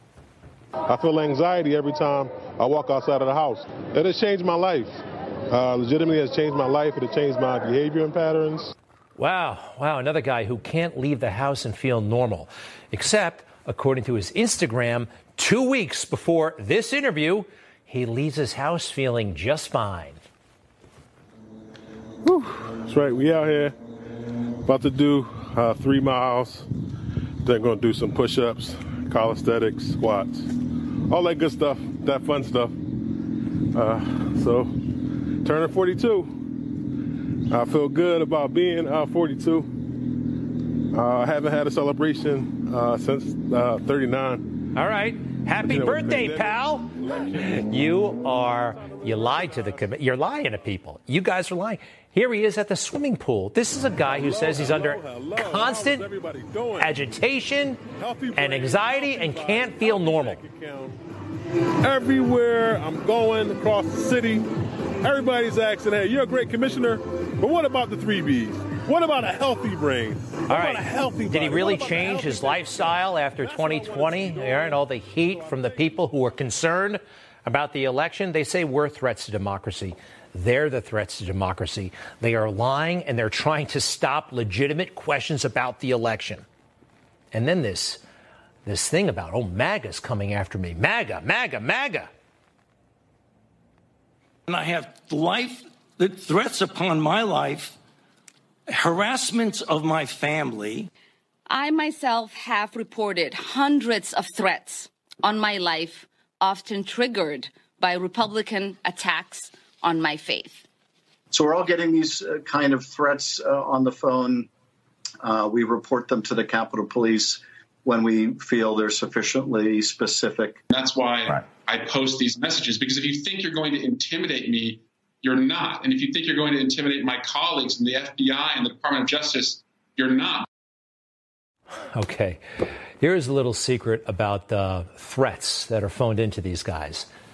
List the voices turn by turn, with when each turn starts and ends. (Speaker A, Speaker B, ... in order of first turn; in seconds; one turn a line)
Speaker A: 0.9-4.9
Speaker A: 5.5-8.7
Speaker B: 9.2-20.2
Speaker A: 22.2-23.8
Speaker A: 24.6-26.7
Speaker A: 27.4-30.5
Speaker A: 31.1-32.8
Speaker A: 33.7-34.9
Speaker A: 35.4-36.3
Speaker A: 37.5-39.7
Speaker A: 40.9-44.5
Speaker B: 44.7-56.1
Speaker A: 45.6-47.9
Speaker A: 48.5-49.9
Speaker A: 54.0-56.9
Speaker B: 56.8-57.8
Speaker A: 58.0-61.0
Speaker B: 58.4-60.4
Speaker A: 61.8-64.5
Speaker A: 65.0-76.1
Speaker B: 70.5-86.4
Speaker B: 87.3-88.0
Speaker B: 88.7-92.1
Speaker C: 94.5-97.8
Speaker C: 98.7-100.9
Speaker D: 101.5-110.6
Speaker E: 111.3-114.5
Speaker E: 115.2-120.6
Speaker F: 120.7-130.5
Speaker B: 131.9-132.4
Speaker B: 133.0-137.1